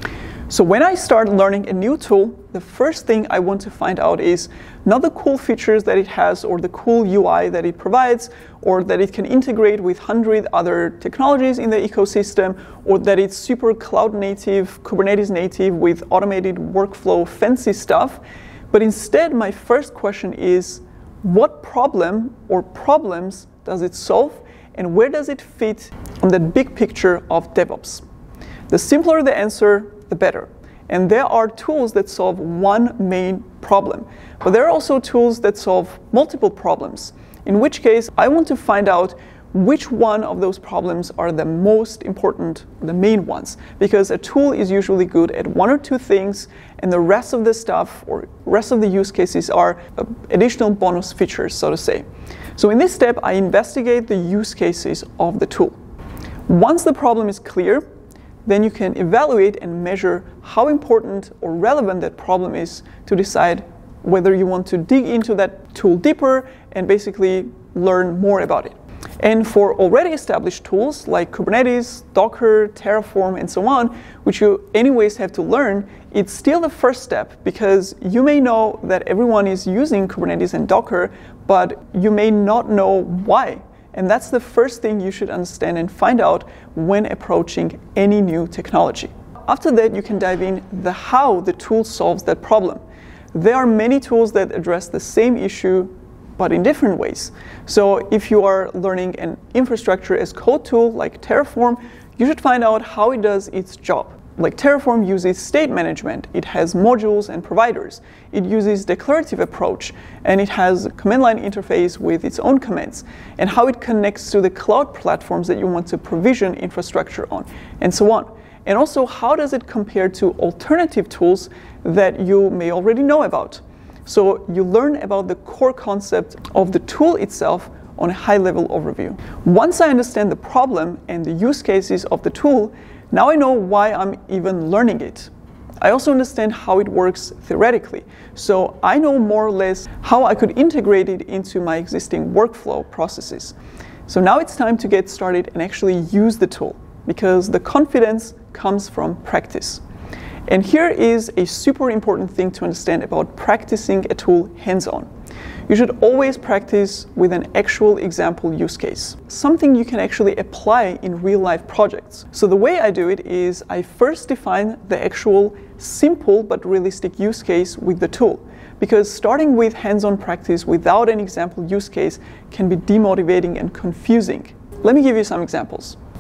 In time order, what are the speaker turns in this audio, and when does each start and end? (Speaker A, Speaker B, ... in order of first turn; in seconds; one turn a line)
Speaker A: 0.5-18.2
Speaker A: 18.7-28.0
Speaker A: 28.7-52.1
Speaker A: 52.6-55.8
Speaker A: 56.5-57.8
Speaker A: 58.5-92.8
Speaker A: 93.3-143.6
Speaker A: 144.1-149.8
Speaker A: 150.5-155.1
Speaker A: 155.7-176.0